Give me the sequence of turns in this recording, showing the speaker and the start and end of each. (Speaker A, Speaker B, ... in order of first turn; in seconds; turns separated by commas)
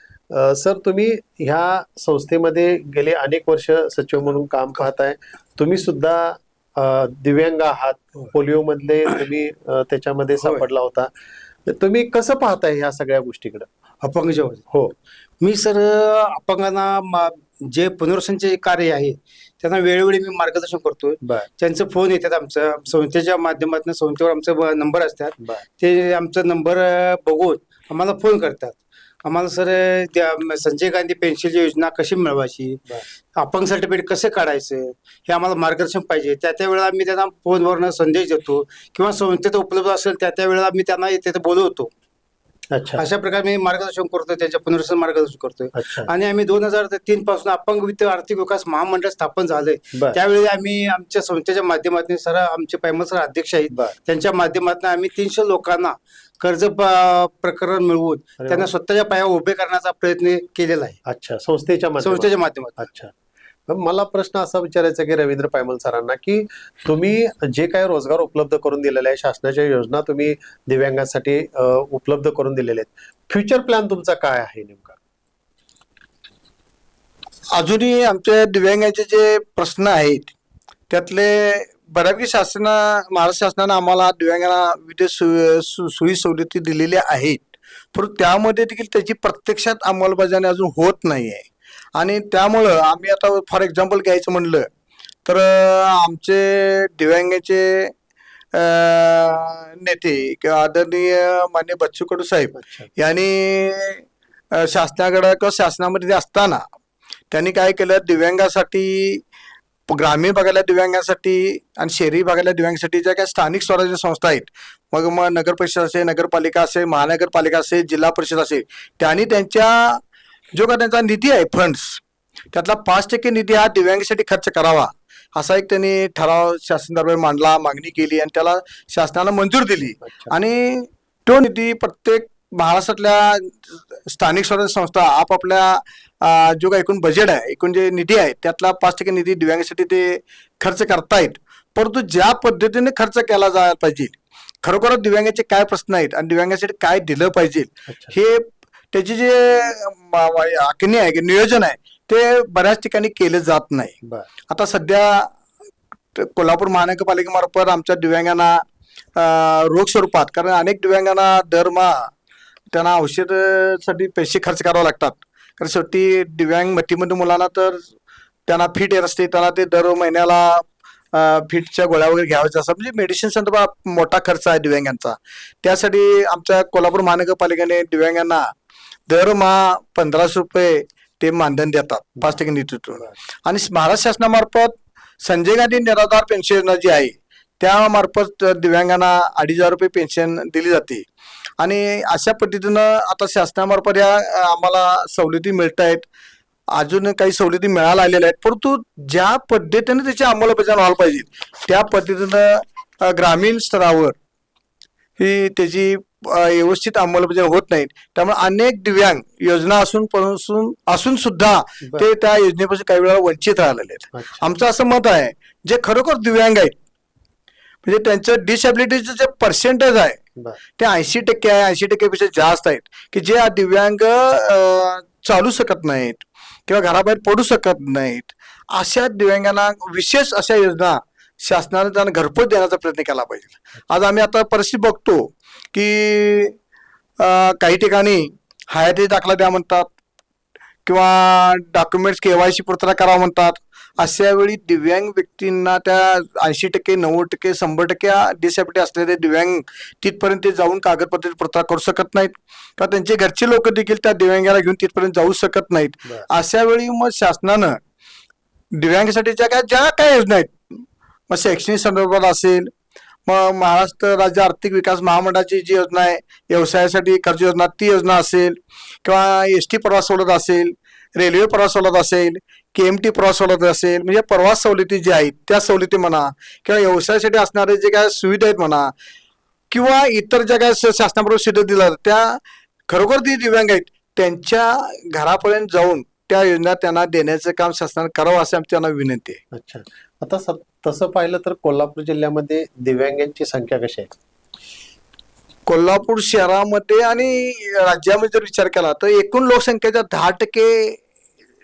Speaker A: 0.3-11.1, Speaker A: 11.7-13.7, Speaker B: 14.0-14.6, Speaker B: 15.4-32.8, Speaker A: 21.2-21.5, Speaker A: 25.4-25.6, Speaker B: 33.3-41.9, Speaker A: 42.7-43.0, Speaker B: 43.0-61.0, Speaker A: 45.7-46.1, Speaker A: 53.7-54.0, Speaker A: 58.4-58.7, Speaker A: 61.1-63.1, Speaker B: 62.0-62.9, Speaker A: 63.7-75.0, Speaker C: 77.5-80.3, Speaker C: 80.9-94.7, Speaker C: 95.2-97.9, Speaker C: 98.5-106.6, Speaker A: 102.6-102.9, Speaker C: 107.3-109.2, Speaker C: 109.9-120.0, Speaker C: 120.5-122.0, Speaker C: 122.5-153.9, Speaker A: 130.0-130.3, Speaker A: 147.9-148.1, Speaker C: 154.5-155.3, Speaker C: 156.1-158.6, Speaker C: 159.2-162.1, Speaker C: 162.7-167.8, Speaker C: 168.5-178.5, Speaker C: 179.1-191.0, Speaker C: 191.6-196.1, Speaker C: 196.7-204.1, Speaker C: 205.2-216.7, Speaker A: 214.1-214.5, Speaker C: 217.8-220.2, Speaker C: 220.8-236.5, Speaker C: 237.2-239.9, Speaker C: 240.8-257.8, Speaker C: 258.7-262.7, Speaker C: 263.2-278.9, Speaker C: 279.7-289.4, Speaker A: 289.5-294.1, Speaker C: 295.7-301.0